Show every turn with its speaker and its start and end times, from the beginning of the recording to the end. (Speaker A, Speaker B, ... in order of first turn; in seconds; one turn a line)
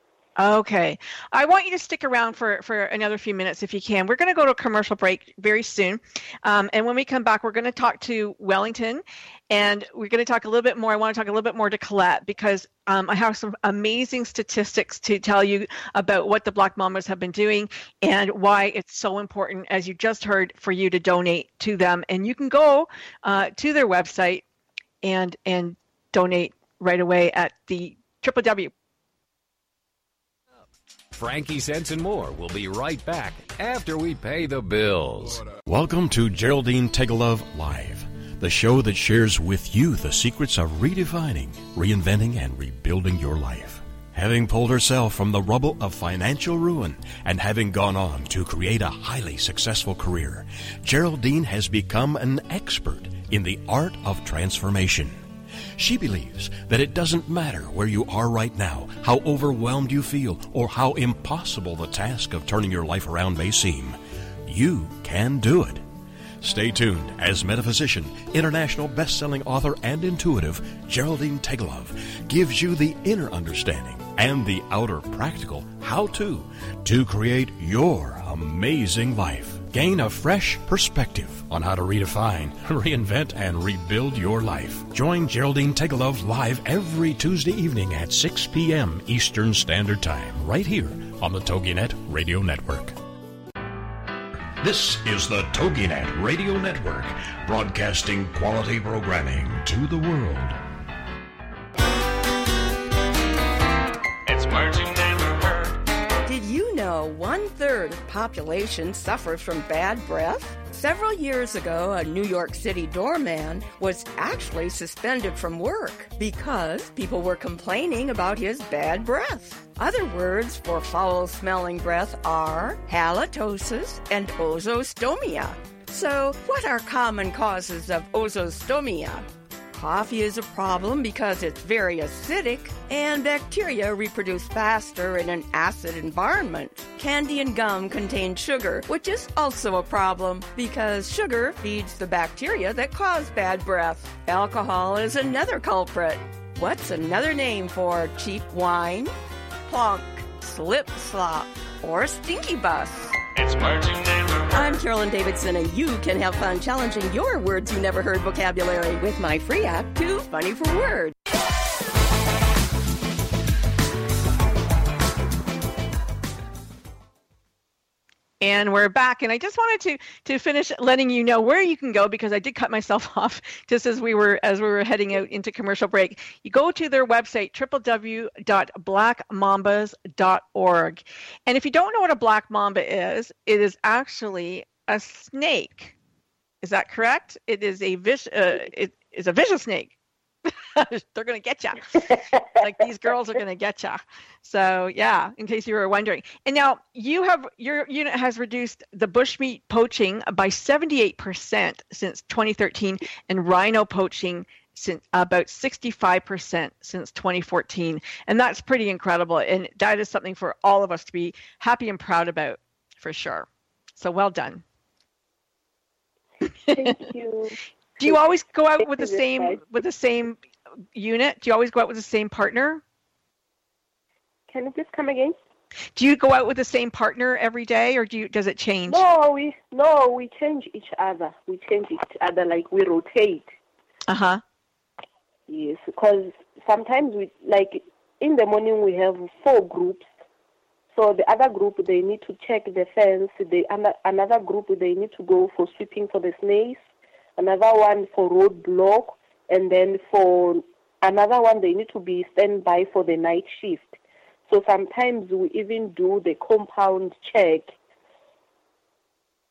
Speaker A: 0.4-24.4
Speaker A: 25.0-28.7
Speaker B: 31.1-35.5
Speaker C: 35.6-55.2
Speaker C: 55.8-65.8
Speaker C: 66.4-93.0
Speaker C: 94.7-95.0
Speaker C: 95.5-98.4
Speaker C: 99.1-100.5
Speaker D: 106.2-149.1
Speaker D: 149.7-161.1
Speaker A: 168.4-185.9
Speaker A: 186.6-189.9
Speaker A: 190.5-214.6
Speaker A: 216.7-217.0
Speaker E: 216.7-218.2
Speaker A: 218.0-220.4
Speaker E: 218.8-219.6
Speaker A: 220.9-222.8
Speaker E: 224.5-225.3
Speaker A: 226.0-229.0
Speaker E: 228.9-233.5
Speaker A: 234.1-234.4
Speaker E: 235.5-240.1
Speaker E: 240.9-246.8
Speaker E: 247.4-257.7